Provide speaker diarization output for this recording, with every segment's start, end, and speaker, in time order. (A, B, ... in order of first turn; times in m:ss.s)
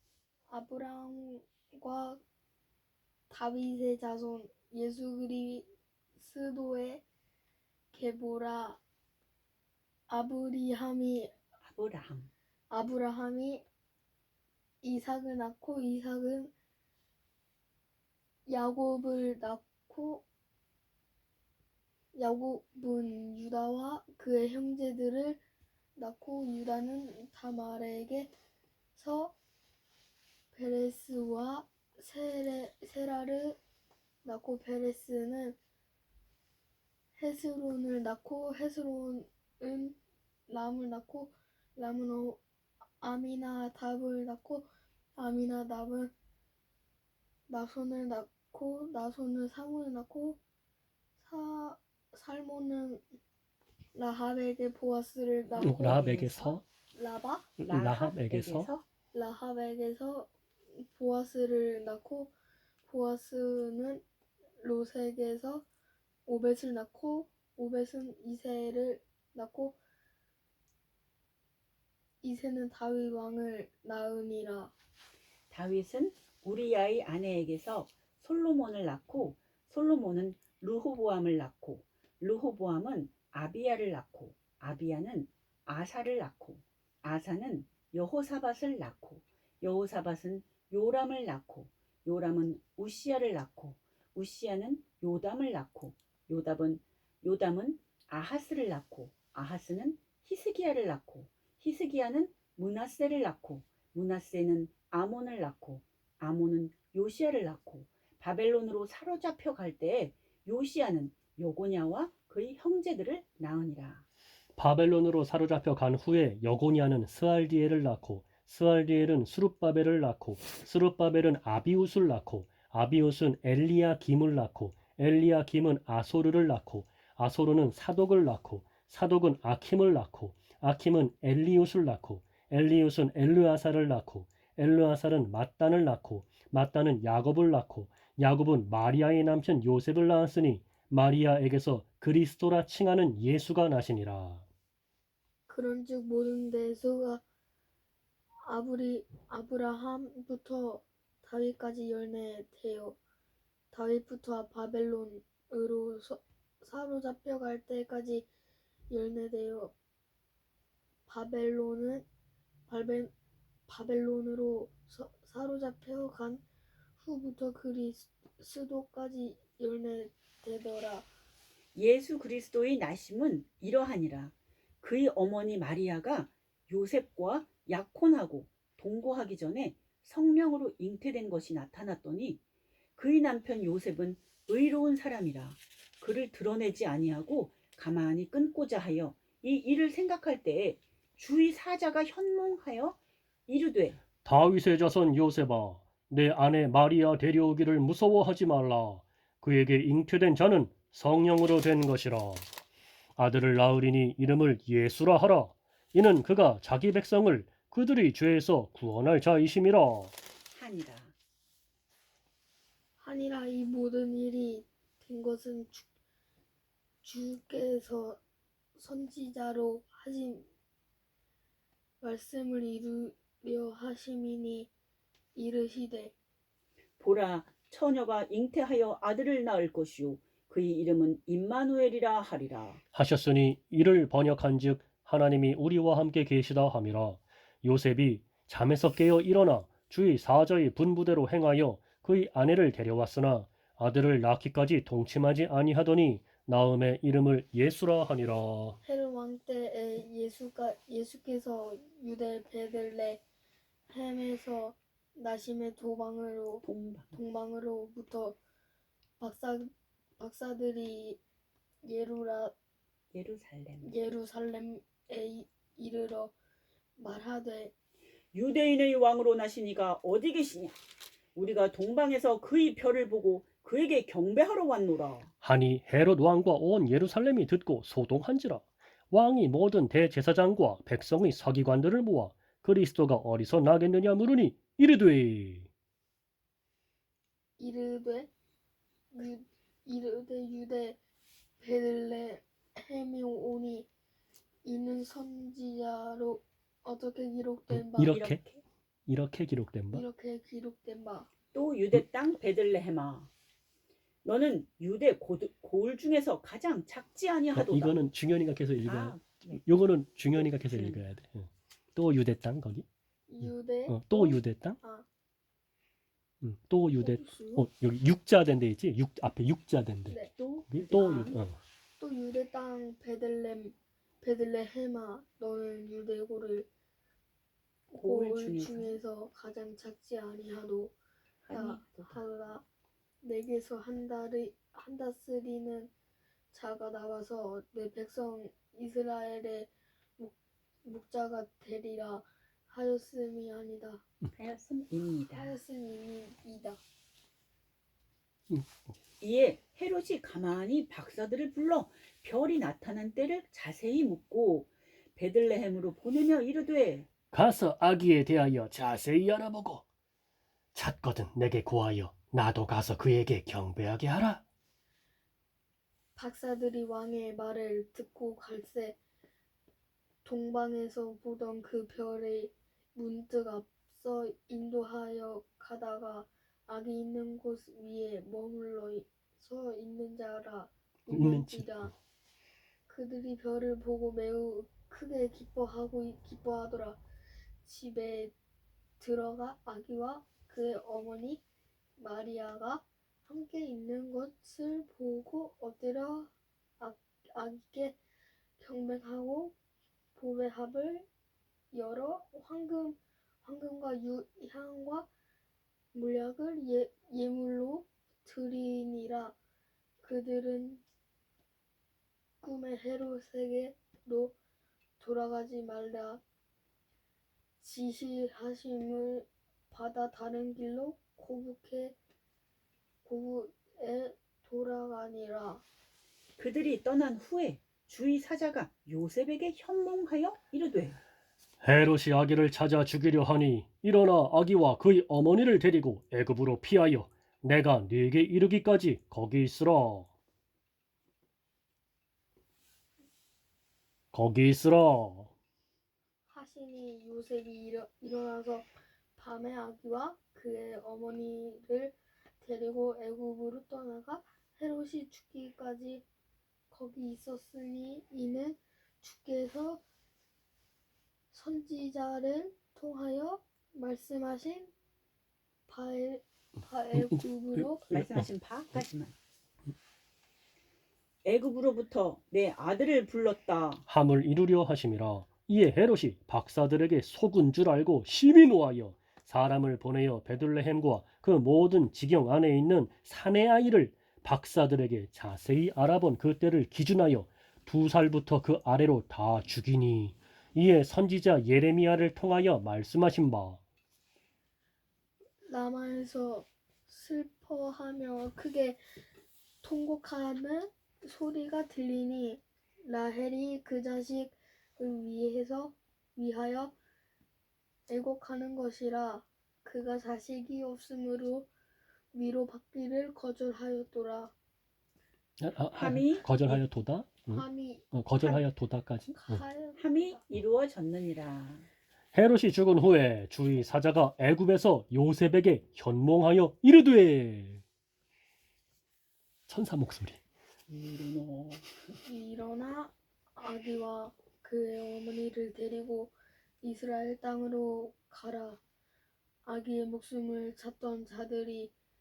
0:00.5-0:02.2 A
0:03.3-0:07.0 A
0:07.9-0:08.8 A
0:10.1-0:11.3 A
0:11.6-0:12.3 B
0:12.7-0:13.6 A
0:14.8-0:16.5 A
0:18.4-0:20.2 A
0:22.1-0:25.4 A
0:26.0-0:28.3 A
0:28.9-0:29.3 A
0:30.5-0:33.6 A
0:34.2-0:35.6 A
0:37.2-0:40.0 A
0:40.5-0:42.4 A
0:43.0-0:46.1 A
0:47.5-0:50.4 A
0:51.2-0:53.0 A
0:53.9-0:56.1 A
0:55.4-0:56.6 B
0:55.6-0:56.6 C
0:56.9-0:57.6 A
0:57.6-0:58.7 C
0:57.6-0:58.8 B
0:59.1-1:02.3 A
1:02.8-1:04.0 A
1:04.6-1:05.6 A
1:06.2-1:09.8 A
1:12.2-1:14.7 A
1:15.5-1:54.0 B
1:54.6-2:24.4 C
2:25.5-2:27.2 A
2:28.4-2:33.0 A
2:33.7-2:38.3 A
2:38.9-2:39.7 A
2:41.1-2:42.0 A
2:42.7-2:43.1 A
2:43.7-2:46.4 A
2:47.0-2:51.1 A
2:51.7-3:02.4 B
3:03.0-3:14.0 B
3:14.2-3:22.5 C
3:23.2-3:30.1 C
3:30.5-3:31.1 B
3:33.0-3:35.9 A
3:37.0-3:38.2 A
3:38.8-3:40.5 A
3:42.0-3:44.7 A
3:45.3-3:46.1 A
3:47.0-3:52.8 B
3:52.9-4:08.8 C
4:08.8-4:13.2 A
4:13.9-4:18.4 A
4:16.6-4:17.2 B
4:19.2-4:21.2 A
4:21.8-4:22.5 A
4:23.1-4:23.9 B
4:23.8-4:26.3 A
4:27.0-4:27.7 A
4:28.3-4:30.8 B
4:31.3-4:35.3 B
4:35.4-4:45.7 C
4:47.6-4:48.3 A
4:49.1-4:51.0 A
4:51.6-4:53.9 A
4:54.6-4:58.2 A
4:57.7-4:58.4 C
4:58.0-4:58.6 B
4:59.1-5:00.0 C
4:59.9-5:01.3 A
5:01.5-5:03.3 B
5:04.2-5:08.0 B
5:07.5-5:12.8 C
5:08.8-5:11.1 B
5:13.3-5:15.1 A
5:13.4-5:14.8 C
5:16.4-5:20.2 C
5:16.9-5:17.6 A
5:20.1-5:20.3 A
5:20.3-5:21.4 B
5:20.7-5:21.6 C
5:20.9-5:21.3 A
5:22.0-5:26.7 A
5:27.9-5:30.9 A
5:27.9-5:29.0 B
5:31.4-5:32.2 B
5:31.5-5:32.6 A
5:33.2-5:35.9 A
5:36.5-5:44.0 A
5:44.3-5:45.6 B
5:45.3-5:46.8 A
5:48.5-5:48.8 C
5:49.2-5:57.1 B
5:57.3-5:59.8 C
6:00.7-6:04.4 C
6:06.1-6:09.0 A
6:10.2-6:21.9 A
6:21.1-6:21.9 C
6:22.9-6:27.0 A
6:27.6-6:28.3 A
6:29.0-6:31.4 A
6:32.0-6:38.0 A
6:38.6-6:39.5 A
6:40.1-6:41.1 A
6:41.7-6:45.1 A
6:45.9-6:49.3 A
6:50.0-6:50.8 A
6:52.4-6:54.3 A
6:55.0-6:56.2 A
6:57.6-7:02.0 A
7:03.0-7:05.6 A
7:06.4-7:11.0 B
7:11.6-7:20.1 C
7:24.1-7:25.3 C
7:26.3-7:36.0 A
7:36.7-7:39.8 A
7:41.3-7:44.7 A
7:45.7-7:47.9 A
7:46.9-7:48.8 C
7:47.9-7:49.1 B
7:51.2-7:53.8 B
7:53.9-8:13.6 C
8:15.4-8:18.8 A
8:19.6-8:26.7 A
8:27.9-8:31.5 A
8:32.1-8:34.3 A
8:35.4-8:39.4 C
8:35.7-8:36.7 B
8:37.3-8:38.5 A
8:39.1-8:40.2 A
8:39.7-8:41.7 B
8:42.1-8:47.6 C
8:49.5-8:50.2 C
8:50.7-8:52.0 B
8:52.0-8:58.6 A
8:59.4-9:01.7 A